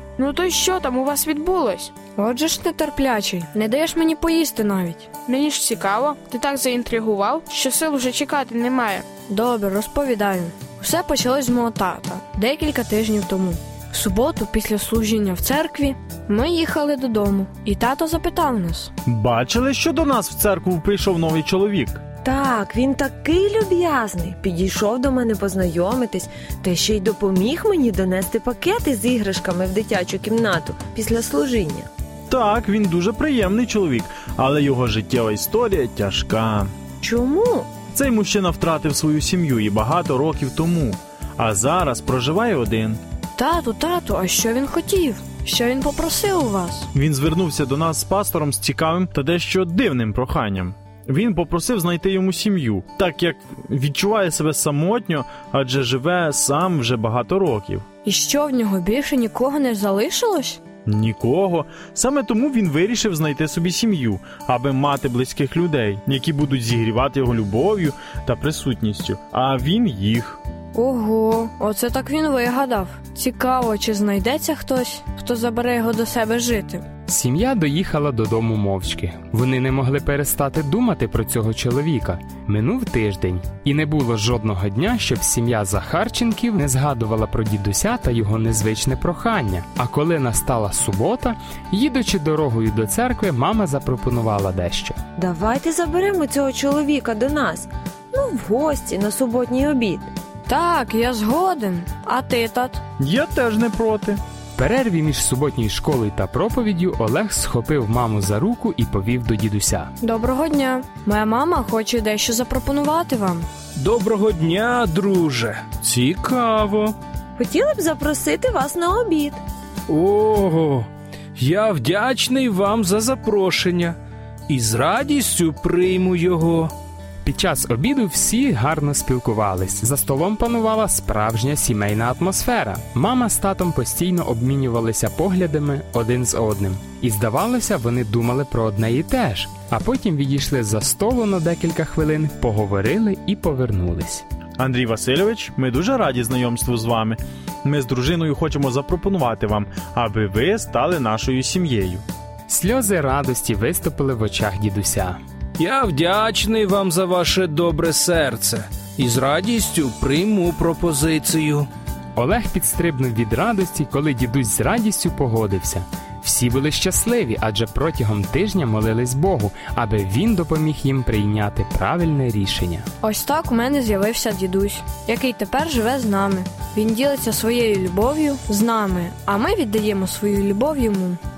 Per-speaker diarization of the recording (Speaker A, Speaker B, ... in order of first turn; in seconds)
Speaker A: 0.2-1.9, 5.3-9.1
Speaker B: 2.2-5.1, 9.3-18.9, 43.4-46.9, 58.0-60.6, 70.7-76.8, 100.5-102.8, 110.0-113.5, 173.0-181.2
Speaker C: 19.1-22.1, 32.3-36.7, 37.9-43.0, 46.9-57.9, 60.9-70.4, 103.0-104.2, 144.6-152.0
Speaker D: 22.2-31.9, 37.0-37.8, 95.2-100.1, 117.4-119.4
Speaker E: 77.1-95.0, 104.6-109.9, 127.2-144.2, 152.5-155.2, 162.2-172.9
Speaker F: 113.8-116.9, 119.9-120.9, 121.4-123.9, 124.5-126.7, 155.6-161.7